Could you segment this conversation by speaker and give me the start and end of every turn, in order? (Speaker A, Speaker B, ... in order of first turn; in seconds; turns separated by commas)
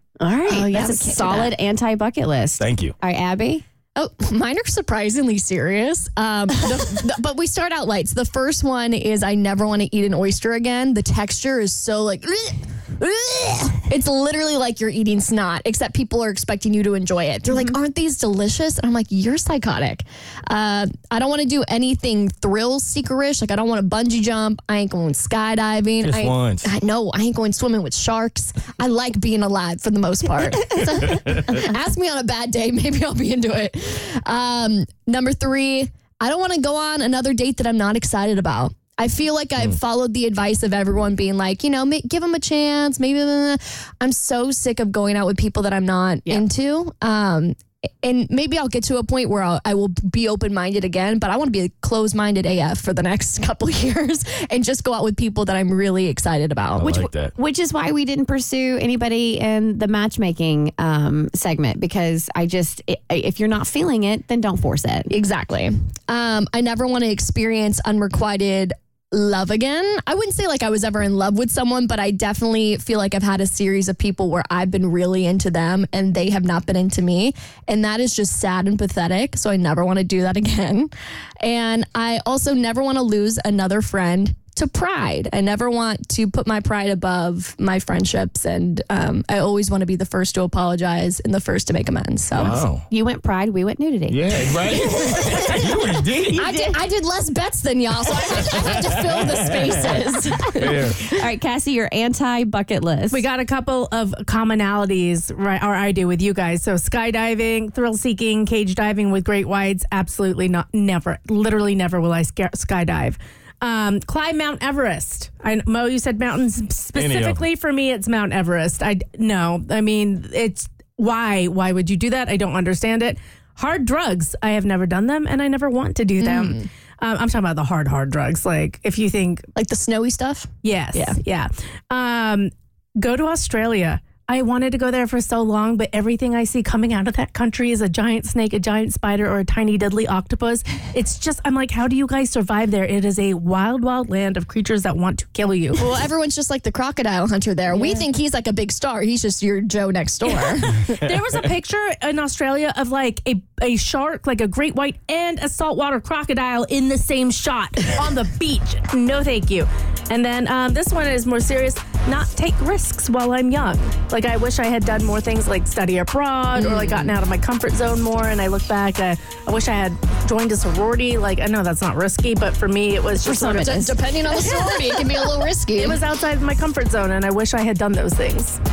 Speaker A: 0.2-3.6, Speaker B: 0.5-1.5, Speaker C: 2.6-3.0, Speaker B: 3.9-57.0, Speaker C: 26.0-26.7, Speaker C: 56.8-57.3, Speaker A: 56.8-65.1, Speaker B: 65.1-92.6, Speaker C: 92.3-92.9, Speaker A: 92.9-94.3, Speaker C: 94.1-96.4, Speaker A: 95.5-96.8, Speaker B: 96.3-100.8, Speaker C: 98.3-99.5, Speaker C: 100.5-101.0, Speaker A: 100.8-103.2, Speaker D: 103.1-129.4, Speaker C: 116.9-117.4, Speaker B: 126.2-126.7, Speaker B: 129.5-131.2, Speaker D: 130.6-145.8, Speaker B: 145.8-151.0, Speaker D: 151.0-173.6, Speaker A: 166.6-167.1, Speaker A: 173.2-174.0, Speaker B: 173.5-176.0, Speaker A: 174.5-175.0, Speaker D: 175.8-178.6